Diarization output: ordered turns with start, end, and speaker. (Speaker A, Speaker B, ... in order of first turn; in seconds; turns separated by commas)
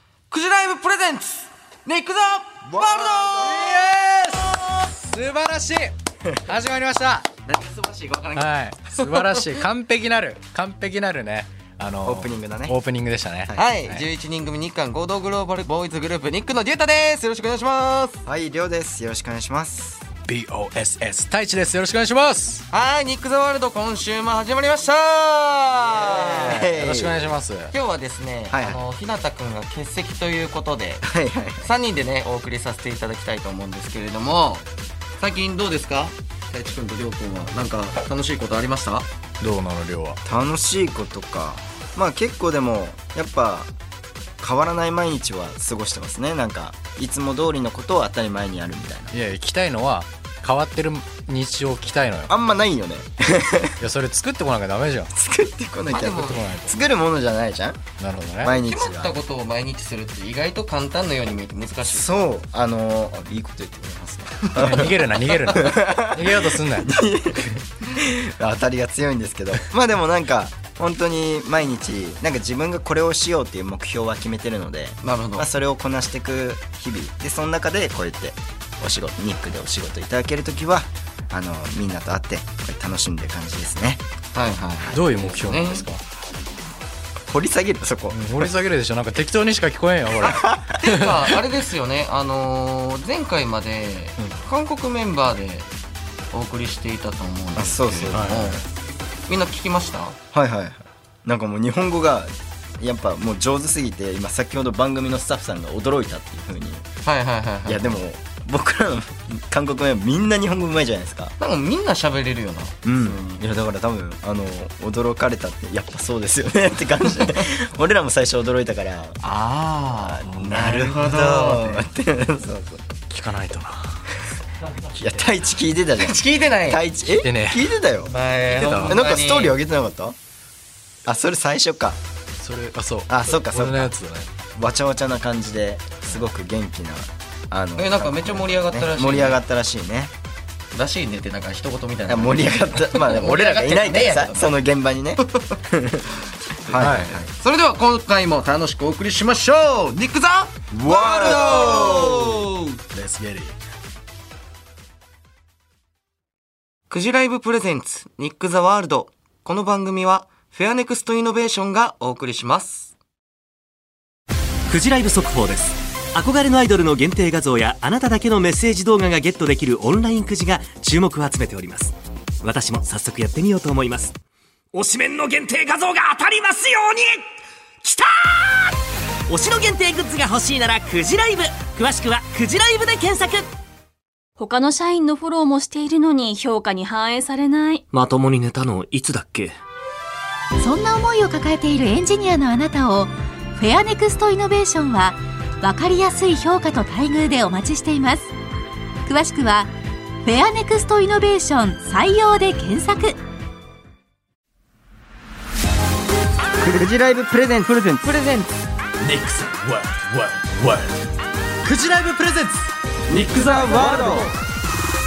Speaker A: 0.3-3.6, Speaker B: 2.7-3.5, Speaker C: 3.3-7.3, Speaker A: 7.5-9.5, Speaker C: 8.4-14.1, Speaker B: 12.0-12.8, Speaker A: 13.5-18.2, Speaker B: 18.3-20.0, Speaker C: 20.3-22.7, Speaker A: 22.7-26.7, Speaker C: 26.1-27.7, Speaker B: 26.2-27.3, Speaker A: 27.7-31.1, Speaker B: 28.5-28.8, Speaker B: 31.0-31.7, Speaker A: 31.6-34.6, Speaker A: 35.2-39.1, Speaker C: 39.4-40.2, Speaker B: 40.2-43.7, Speaker B: 44.4-49.1, Speaker C: 49.1-52.3, Speaker B: 52.3-53.8, Speaker C: 53.8-55.1, Speaker B: 55.1-57.8, Speaker A: 55.9-56.4, Speaker C: 56.0-56.8, Speaker C: 58.0-58.5, Speaker B: 58.4-59.2, Speaker A: 58.5-62.3, Speaker B: 61.9-84.0, Speaker C: 64.5-66.9, Speaker A: 64.6-64.9, Speaker A: 75.0-75.5, Speaker A: 84.3-85.9, Speaker C: 84.9-86.0, Speaker B: 87.3-88.5, Speaker C: 88.1-91.1, Speaker B: 90.2-90.8, Speaker A: 90.8-95.7, Speaker A: 96.3-98.6, Speaker B: 97.6-98.6, Speaker C: 97.9-98.5, Speaker A: 99.3-100.2, Speaker B: 100.3-106.8, Speaker A: 107.0-108.0, Speaker B: 107.7-111.3, Speaker A: 111.4-113.2, Speaker B: 112.8-119.2, Speaker A: 119.2-121.8, Speaker B: 120.0-122.8, Speaker C: 123.1-124.0, Speaker B: 124.9-128.1, Speaker A: 126.0-126.8, Speaker C: 127.1-127.7, Speaker A: 128.1-129.6, Speaker C: 128.5-129.0, Speaker B: 128.9-130.2, Speaker B: 131.1-132.0, Speaker C: 132.4-134.3, Speaker B: 133.1-133.9, Speaker B: 134.6-140.1, Speaker A: 137.8-139.4, Speaker A: 140.7-144.6, Speaker B: 142.1-146.1, Speaker B: 146.7-147.3, Speaker C: 146.8-147.1, Speaker A: 146.8-152.8, Speaker B: 150.7-152.5, Speaker C: 152.9-153.5, Speaker A: 156.9-162.9, Speaker D: 164.7-174.2, Speaker D: 174.7-177.2, Speaker D: 177.8-178.7, Speaker D: 179.3-183.5, Speaker E: 184.4-187.9, Speaker D: 187.9-189.6, Speaker F: 190.6-198.3, Speaker F: 199.1-199.7, Speaker F: 200.2-203.2, Speaker B: 206.6-208.0, Speaker A: 208.0-208.6, Speaker D: 209.1-210.0, Speaker D: 211.7-212.5, Speaker D: 213.2-214.1, Speaker B: 213.5-214.2